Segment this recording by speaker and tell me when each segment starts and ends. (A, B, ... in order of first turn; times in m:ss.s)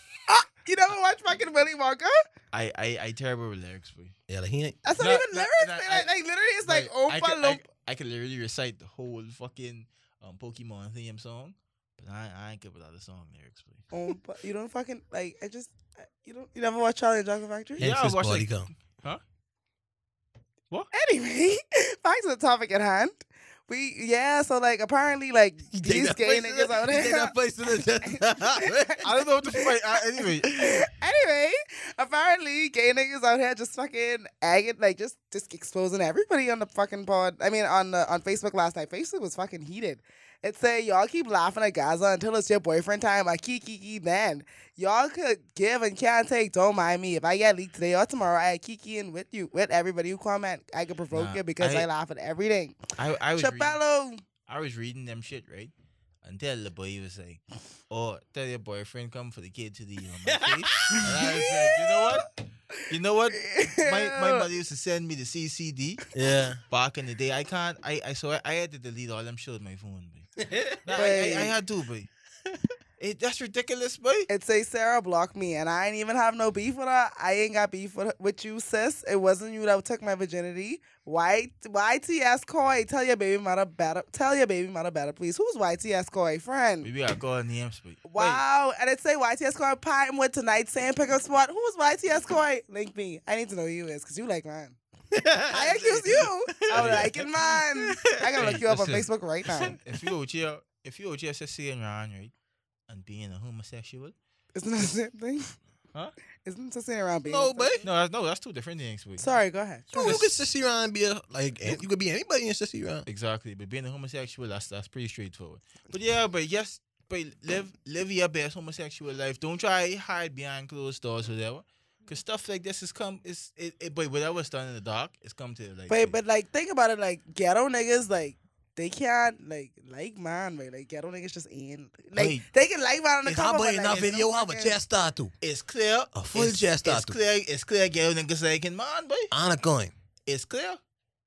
0:00.3-0:02.2 A
0:02.5-0:04.1 B
0:04.3-0:04.8 C
0:04.8-0:07.6 A
0:05.0-0:06.1 B
0:06.6-0:13.9 B
0:13.9-0:17.9 A
0:17.8-0:18.7 C
0:17.8-0:19.2 B
0:20.9-0:27.4 A
0:25.8-0:29.0 C
0:28.0-0:29.0 A
0:29.0-0:30.8 B
0:30.2-0:54.2 A
0:51.1-0:51.9 B
0:53.0-0:53.8 B
0:54.5-0:55.7 B
0:56.2-1:02.3 B
1:00.2-1:01.6 C
1:00.9-1:01.3 A
1:02.9-1:06.0 B
1:03.4-1:04.5 A
1:06.1-1:06.6 C
1:06.7-1:10.3 B
1:10.4-1:11.0 C
1:10.8-1:12.1 B
1:10.9-1:11.5 A
1:13.0-1:14.3 B
1:14.3-1:26.9 A
1:26.8-1:28.4 B
1:28.1-1:34.8 A
1:35.1-1:38.0 C
1:35.5-1:39.8 A
1:36.7-1:37.2 B
1:38.4-1:42.3 B
1:42.9-1:44.1 B
1:44.5-1:45.5 A
1:46.4-1:47.8 A
1:47.2-1:47.9 C
1:47.8-1:49.4 B
1:49.2-1:50.2 A
1:49.9-1:53.0 C
1:50.0-1:50.4 B
1:53.0-2:06.2 B
2:05.9-2:14.8 A
2:12.1-2:12.4 B
2:13.2-2:15.3 C
2:15.4-2:19.3 B
2:16.1-2:17.2 C
2:19.3-2:19.9 C
2:20.3-2:20.8 B